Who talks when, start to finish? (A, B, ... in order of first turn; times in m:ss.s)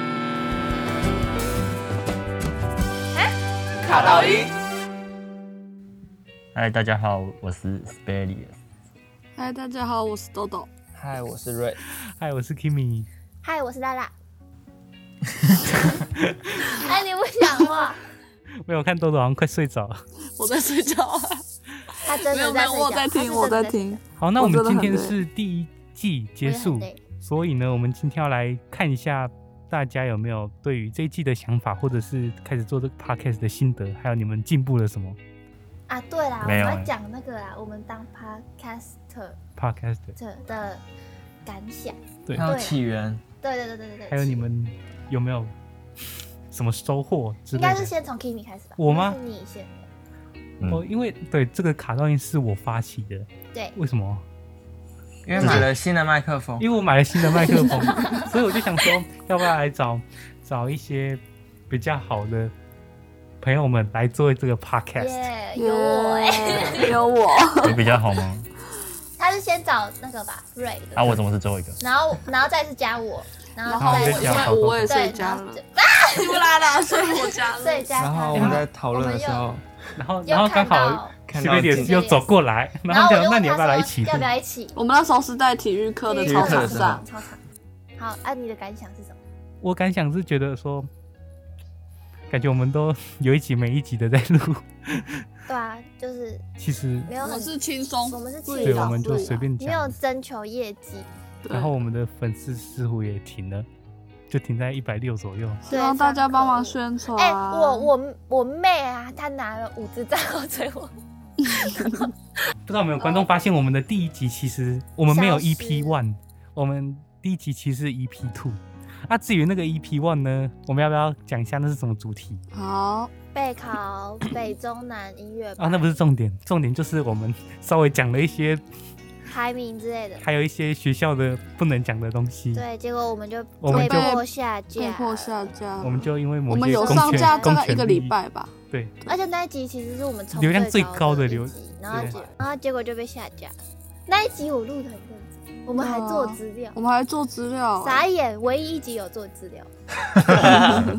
0:03.8-0:04.5 A
0:06.5-0:08.6 B
0:09.4-0:10.7 A
0:10.9-0:11.8 C
0:12.1-0:13.1 D
0:13.4-0:14.1 E
0:16.7-0:18.0 E
0:18.6-0:20.0 D
0:20.4-0:21.4 A
0:21.9-0:25.2 A
0:22.0-0:24.0 E
0:24.2-0:35.2 D
0:26.4-0:27.0 E
0:35.9-0:39.4 E
0:36.4-0:36.9 B
0:39.6-0:40.2 D
0:40.2-0:40.8 E
0:41.4-0:42.8 E
0:42.3-0:43.2 C
0:42.4-0:43.2 B
0:43.4-0:44.4 E
0:44.1-0:45.5 D
0:46.5-0:47.9 D
0:47.5-0:49.9 E
0:48.8-0:49.2 D
0:50.7-0:54.2 D
0:55.2-0:56.7 C
0:55.4-0:55.7 E
0:55.4-0:55.7 B
0:56.6-1:02.5 D
1:03.4-1:05.3 D
1:05.0-1:07.0 E
1:05.5-1:07.8 A
1:07.6-1:08.5 B
1:09.2-1:11.2 E
1:11.0-1:11.8 B
1:11.8-1:19.5 E
1:13.6-1:17.9 A
1:13.8-1:15.1 D
1:14.2-1:14.5 C
1:18.0-1:19.6 C
1:18.3-1:18.6 D
1:20.0-1:24.3 D
1:20.2-1:22.3 E
1:21.3-1:22.0 C
1:22.9-1:24.8 E
1:24.7-1:27.0 A
1:26.1-1:27.4 E
1:26.2-1:27.0 C
1:28.0-1:29.2 E
1:29.6-1:30.9 D
1:32.3-1:35.2 D
1:35.5-1:36.4 E
1:36.6-1:37.1 D
1:37.1-1:37.6 E
1:37.2-1:39.4 A
1:38.1-1:41.1 E
1:38.6-1:40.0 D
1:41.4-1:41.8 A
1:41.5-1:43.7 D
1:44.3-1:45.7 D
1:45.7-1:47.9 A
1:45.7-1:50.9 E
1:51.5-1:52.1 E
1:52.6-2:02.4 D
1:53.0-1:53.4 A
1:55.1-1:56.0 E
2:02.5-2:03.1 A
2:03.3-2:05.9 E
2:05.6-2:08.6 D
2:09.3-2:10.2 E
2:10.2-2:12.6 D
2:12.5-2:15.5 E
2:13.6-2:14.2 D
2:13.7-2:19.1 A
2:15.8-2:18.2 D
2:16.7-2:17.5 E
2:18.7-2:19.0 D
2:19.0-2:23.5 E
2:20.3-2:22.2 D
2:24.1-2:26.8 E
2:25.8-2:28.0 A
2:27.8-2:29.7 E
2:30.2-2:30.9 B